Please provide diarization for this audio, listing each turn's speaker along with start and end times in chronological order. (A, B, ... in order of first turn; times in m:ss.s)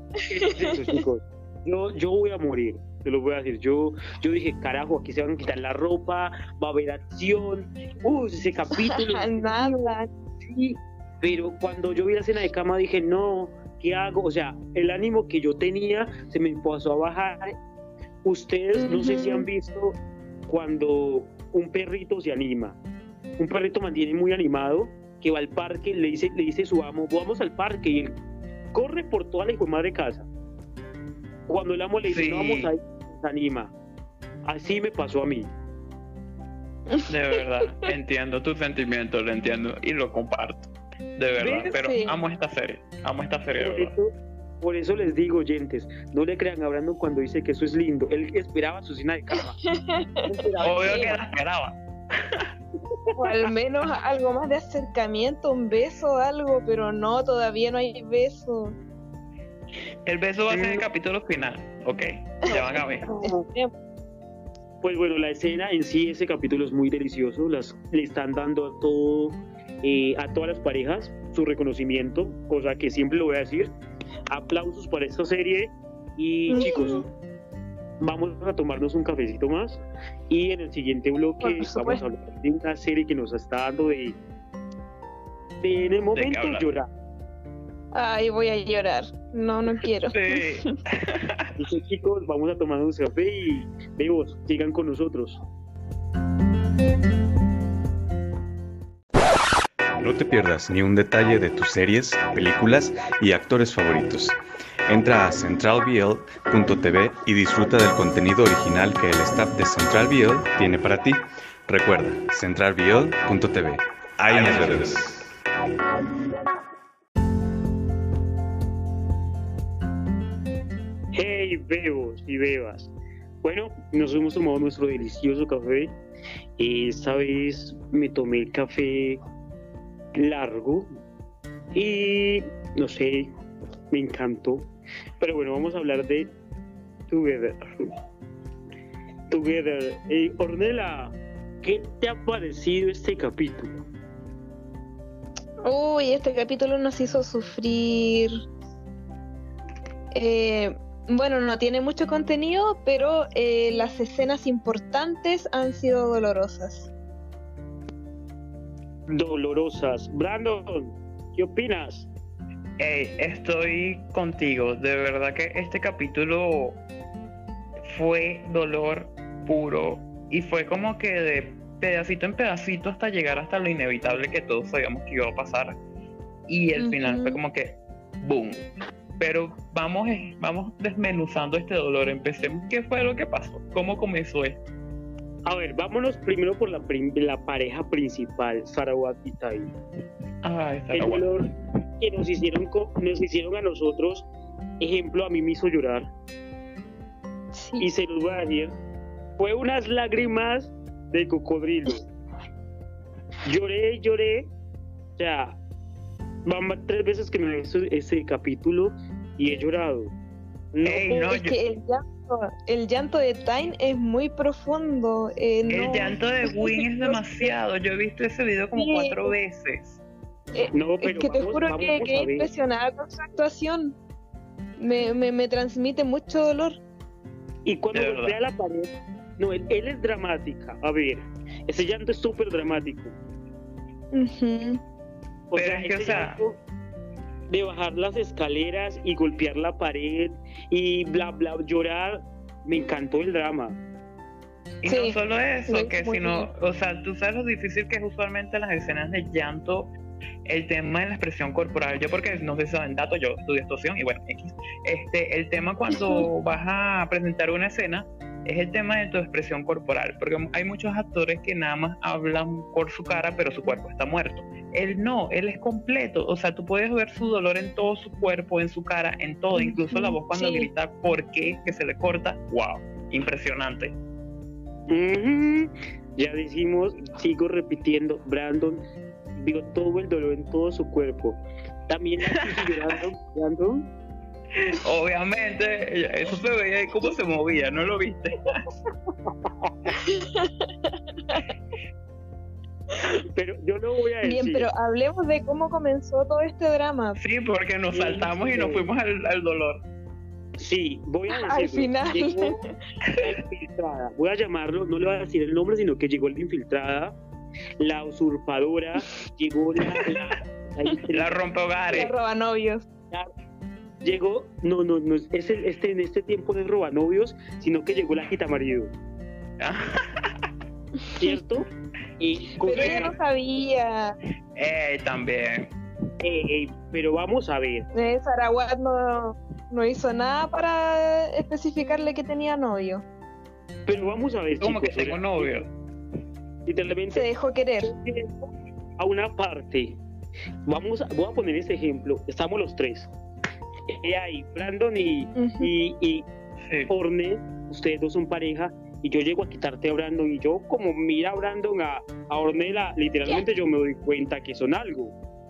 0:00.3-0:17.5 A
0:08.8-0:10.1 B
0:18.2-0:22.8 A
0:18.8-0:19.5 B
0:23.4-0:28.2 A
0:28.7-0:30.3 A
0:31.5-0:33.7 A
0:32.0-0:32.7 C
0:34.4-0:35.5 A
0:36.9-0:37.9 B
0:37.1-0:43.9 C
0:41.4-0:41.7 A
0:41.7-0:42.2 B
0:43.5-0:49.6 A
0:49.6-0:50.2 B
0:50.2-0:51.1 A
0:50.6-0:52.5 C
0:50.9-0:51.1 B
0:53.2-0:58.8 B
1:00.0-1:03.0 C
1:00.5-1:00.9 A
1:03.0-1:03.4 A
1:03.2-1:03.7 B
1:04.8-1:13.7 A
1:14.3-1:17.0 A
1:16.5-1:17.0 B
1:18.0-1:24.2 A
1:21.4-1:22.0 B
1:25.6-1:26.9 A
1:26.1-1:26.7 C
1:27.9-1:30.7 B
1:30.1-1:31.5 C
1:31.6-1:35.4 A
1:39.9-1:55.3 D
2:01.1-2:02.9 A
2:03.4-2:06.0 A
2:06.6-2:09.2 A
2:10.2-2:10.9 A
2:11.7-2:13.3 A
2:13.9-2:16.3 A
2:17.1-2:17.6 A
2:19.3-2:23.8 A
2:25.6-2:28.3 B
2:30.1-2:36.9 B
2:39.1-2:42.1 A
2:42.8-2:46.8 C
2:47.8-2:55.8 C
2:56.5-2:58.6 C
2:56.7-2:57.4 B
2:59.2-3:04.7 C
3:05.4-3:09.7 A
3:10.4-3:11.4 C
3:10.9-3:14.2 A
3:14.8-3:16.1 A
3:17.5-3:17.8 B
3:17.8-3:18.8 A
3:19.4-3:22.1 A
3:23.4-3:24.5 A
3:25.2-3:25.6 A
3:26.4-3:30.1 A
3:30.7-3:31.2 A
3:30.8-3:31.6 C
3:31.1-3:37.5 B
3:35.6-3:40.0 C
3:38.7-3:39.3 B
3:40.5-3:44.0 B
3:40.7-3:42.5 A
3:44.8-3:46.8 B
3:47.6-3:53.2 A
3:47.9-3:48.3 C
3:54.1-3:54.8 B
3:55.5-3:56.6 A
3:55.5-3:56.4 C
3:57.5-4:03.8 A
4:04.8-4:09.9 C
4:04.8-4:05.1 B
4:05.7-4:06.5 B
4:10.4-4:34.0 C
4:15.9-4:16.2 B
4:29.5-4:30.7 B
4:34.9-4:38.8 A
4:39.4-4:43.9 A
4:44.6-4:48.3 C
4:49.2-4:49.9 A
4:50.0-4:51.5 B
4:53.0-4:54.7 A
4:54.2-4:57.2 B
4:57.2-4:59.8 C
4:57.9-4:58.9 A
5:00.6-5:02.6 A
5:01.3-5:02.6 B
5:03.2-5:07.2 A
5:07.8-5:11.3 A
5:11.1-5:12.1 C
5:11.9-5:12.8 B
5:14.0-5:18.9 A
5:19.6-5:20.4 C
5:21.2-5:21.6 A
5:22.2-5:23.1 A
5:22.6-5:24.2 B
5:22.7-5:23.1 C
5:24.6-5:25.7 C
5:26.2-5:27.8 A
5:27.9-5:33.0 B
5:33.9-5:35.6 A
5:34.6-5:35.7 C
5:36.6-5:37.3 A
5:37.1-5:37.9 B
5:37.8-5:40.0 A
5:40.6-5:43.1 A
5:43.9-5:46.3 A
5:45.4-5:45.7 B
5:46.6-5:46.9 C
5:46.9-5:55.1 A